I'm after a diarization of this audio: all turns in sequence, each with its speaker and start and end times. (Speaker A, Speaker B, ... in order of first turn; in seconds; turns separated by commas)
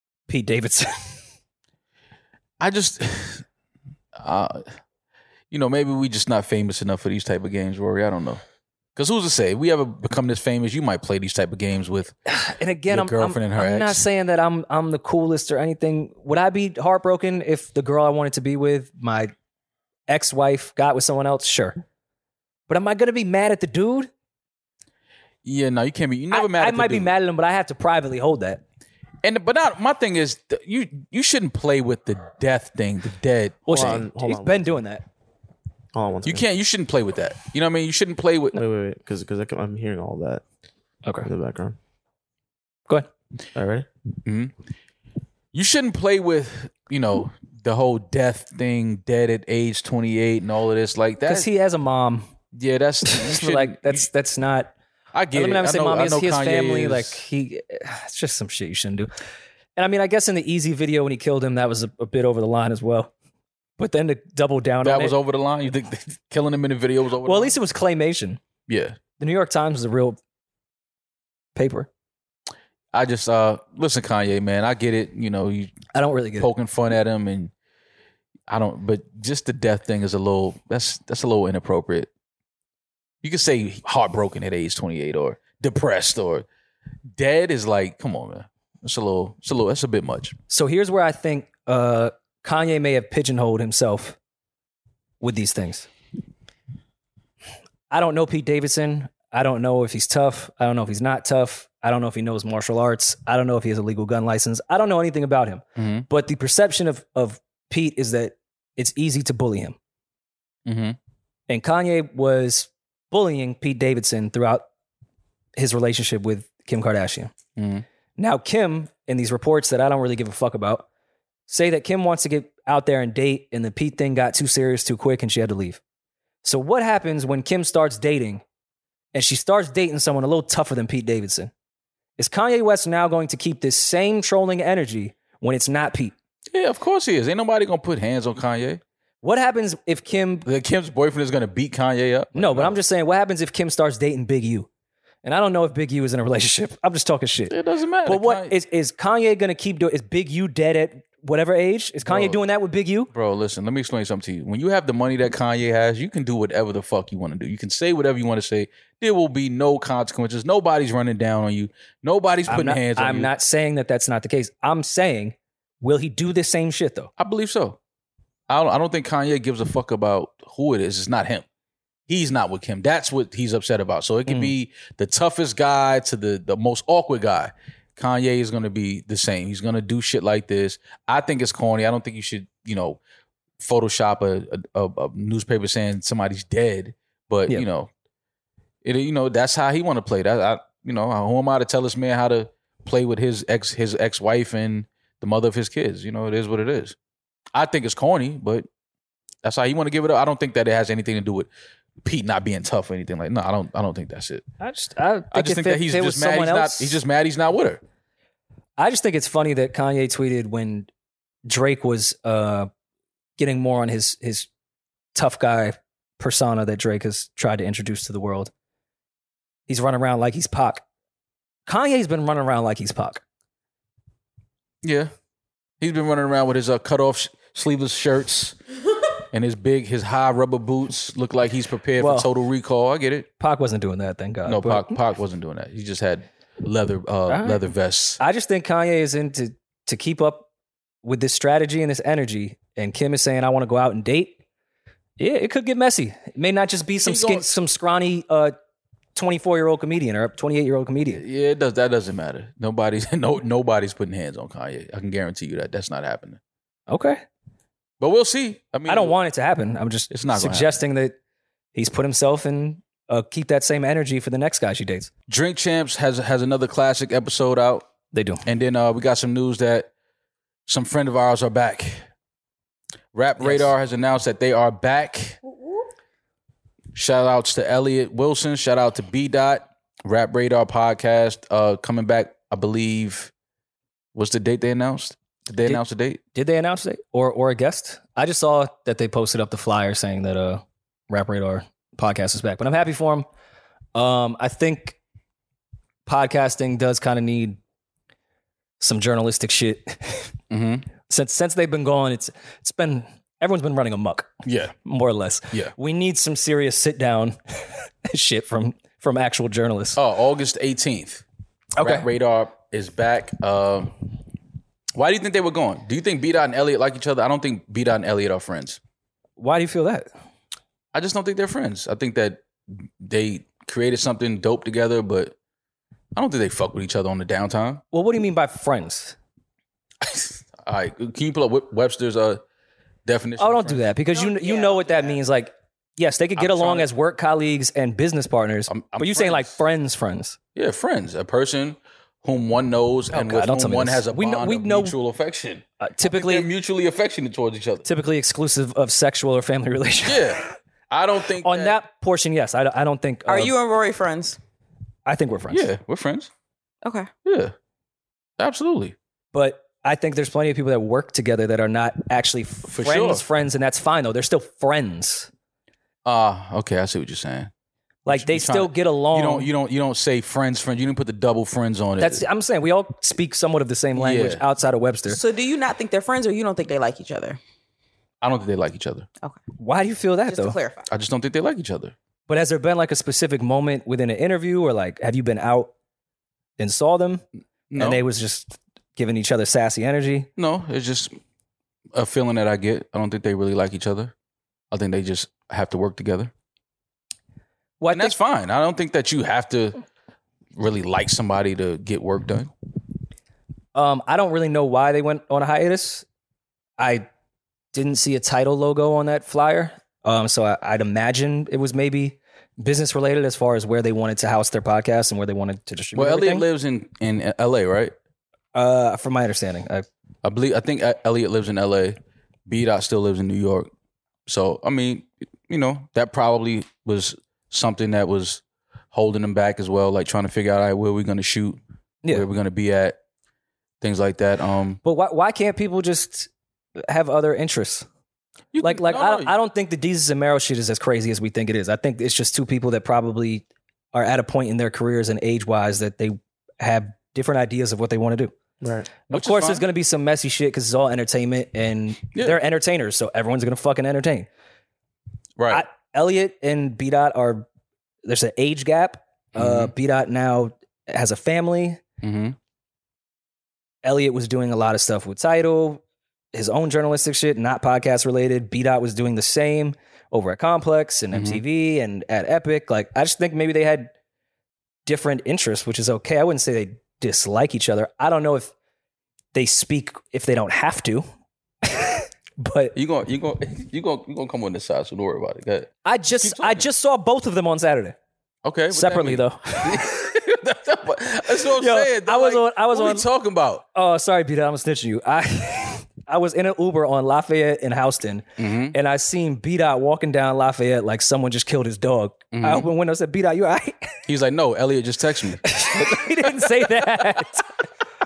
Speaker A: 0.3-1.2, Speaker B: 2.6-3.4, Speaker B: 4.2-4.7, Speaker B: 5.5-8.4, Speaker B: 8.9-12.2, Speaker A: 12.3-19.3, Speaker B: 12.9-14.0, Speaker A: 20.1-21.8, Speaker A: 22.7-24.1, Speaker B: 25.4-27.1, Speaker A: 26.3-28.6, Speaker B: 29.2-33.9, Speaker A: 33.7-35.0, Speaker C: 33.7-34.8, Speaker C: 35.9-36.4, Speaker B: 36.2-38.5, Speaker C: 38.5-40.4, Speaker C: 41.2-41.8, Speaker C: 43.5-43.9, Speaker B: 44.2-44.5, Speaker B: 45.5-51.5, Speaker A: 51.2-52.3, Speaker B: 52.5-54.1, Speaker A: 53.0-54.7, Speaker B: 55.1-57.2, Speaker A: 55.3-59.1, Speaker A: 59.8-63.1, Speaker A: 63.8-65.2, Speaker B: 64.8-67.5, Speaker A: 67.2-68.4, Speaker B: 68.7-69.0, Speaker A: 69.2-70.2, Speaker A: 71.5-71.9, Speaker B: 72.9-75.8, Speaker A: 75.9-76.5, Speaker B: 76.4-77.5, Speaker B: 78.5-82.1, Speaker B: 83.2-86.5, Speaker B: 87.1-90.3, Speaker A: 90.5-94.2, Speaker A: 95.2-95.9, Speaker A: 97.9-109.8, Speaker B: 105.8-106.0, Speaker B: 110.7-111.0, Speaker A: 111.5-114.7, Speaker A: 115.5-117.3, Speaker B: 117.6-117.8, Speaker A: 118.2-120.8, Speaker A: 121.5-125.8, Speaker A: 126.4-128.4, Speaker A: 129.1-131.5, Speaker A: 132.2-136.1, Speaker B: 136.5-138.8, Speaker A: 139.2-140.4, Speaker B: 140.4-142.8, Speaker A: 142.3-144.7, Speaker A: 145.2-153.1, Speaker B: 147.5-148.5, Speaker B: 152.1-152.4, Speaker B: 153.1-163.3, Speaker A: 162.5-167.1, Speaker B: 167.2-167.8, Speaker B: 168.5-171.4, Speaker B: 172.1-183.0, Speaker A: 174.3-174.5, Speaker B: 183.6-187.9, Speaker B: 188.8-196.9, Speaker B: 197.5-198.7, Speaker B: 199.4-201.5, Speaker B: 202.0-204.4, Speaker A: 204.6-207.0, Speaker B: 205.3-207.8, Speaker A: 208.8-210.9, Speaker A: 211.4-212.7, Speaker A: 213.4-214.5, Speaker A: 215.1-218.5, Speaker A: 219.7-220.8, Speaker A: 221.7-223.2, Speaker B: 224.8-225.1, Speaker B: 225.8-228.6, Speaker B: 229.3-233.3, Speaker A: 232.0-232.3, Speaker A: 233.4-234.9, Speaker B: 234.5-238.2, Speaker A: 237.3-237.6, Speaker A: 238.2-240.5, Speaker A: 241.0-244.4, Speaker A: 245.2-248.5, Speaker B: 247.0-247.5, Speaker A: 249.1-251.2, Speaker B: 251.2-256.4, Speaker A: 256.9-257.2, Speaker B: 258.0-259.1, Speaker A: 258.9-261.1, Speaker B: 260.1-260.7, Speaker A: 261.7-265.1, Speaker B: 265.3-267.9, Speaker A: 268.1-268.4, Speaker B: 268.4-269.9, Speaker B: 270.7-272.0, Speaker B: 273.1-275.4, Speaker A: 273.4-273.7, Speaker B: 276.9-283.3, Speaker B: 284.1-286.2, Speaker A: 286.3-293.2, Speaker A: 293.9-295.0, Speaker A: 296.1-297.6, Speaker A: 298.8-300.4, Speaker B: 300.5-300.9, Speaker A: 301.1-304.3, Speaker B: 304.4-304.7, Speaker A: 304.8-310.0, Speaker B: 309.9-311.2, Speaker A: 311.8-312.1, Speaker B: 311.8-313.9, Speaker B: 314.9-318.8, Speaker A: 319.4-320.1, Speaker B: 320.9-322.4, Speaker B: 323.0-325.3, Speaker B: 326.1-327.8, Speaker A: 327.9-329.1, Speaker B: 330.0-332.4, Speaker B: 333.1-333.9, Speaker A: 333.4-340.4, Speaker D: 334.1-335.1, Speaker B: 336.4-336.9, Speaker B: 338.7-339.6, Speaker B: 340.5-347.9, Speaker A: 343.1-344.9, Speaker A: 345.8-346.5, Speaker A: 347.8-350.5, Speaker B: 350.0-351.8, Speaker A: 351.4-353.5, Speaker D: 353.3-354.4, Speaker A: 355.1-355.6, Speaker B: 355.5-356.3, Speaker D: 356.8-357.1, Speaker B: 357.2-357.5, Speaker B: 358.4-358.9, Speaker A: 359.3-365.3, Speaker B: 362.6-363.2, Speaker B: 366.0-367.5, Speaker A: 368.1-369.5, Speaker B: 368.1-372.2, Speaker A: 372.0-375.2, Speaker B: 373.9-374.4, Speaker D: 375.1-377.4, Speaker B: 378.2-379.1, Speaker A: 379.6-380.6, Speaker D: 380.3-380.9, Speaker B: 380.9-381.9, Speaker A: 382.3-385.7, Speaker A: 386.6-387.2, Speaker B: 387.7-388.0, Speaker A: 387.8-390.3, Speaker B: 390.4-391.1, Speaker B: 391.9-394.1, Speaker B: 394.7-396.3, Speaker A: 397.8-398.1, Speaker B: 397.9-399.8, Speaker B: 400.6-402.5, Speaker A: 403.7-406.0, Speaker A: 406.8-407.1, Speaker A: 407.7-416.4, Speaker B: 415.9-417.9, Speaker A: 418.5-419.8, Speaker B: 420.2-423.7, Speaker B: 424.3-433.0, Speaker B: 433.8-434.8, Speaker A: 434.8-436.3, Speaker A: 436.9-437.9, Speaker B: 438.5-439.3, Speaker A: 438.6-448.3, Speaker C: 448.6-448.9, Speaker A: 449.1-454.3, Speaker B: 449.1-449.6, Speaker B: 455.4-455.6, Speaker A: 455.5-457.5, Speaker A: 458.0-461.8, Speaker B: 459.3-459.7, Speaker B: 462.0-462.4, Speaker A: 463.8-465.8, Speaker A: 466.3-473.9, Speaker B: 471.1-471.4, Speaker A: 474.9-478.5, Speaker A: 479.3-481.1, Speaker A: 481.6-482.7, Speaker B: 482.7-486.6, Speaker A: 485.8-487.9, Speaker B: 488.4-493.6, Speaker A: 488.7-489.9, Speaker A: 491.4-493.1, Speaker A: 493.7-503.9, Speaker B: 498.4-498.8, Speaker B: 502.3-502.7, Speaker B: 504.1-506.4, Speaker A: 505.4-507.6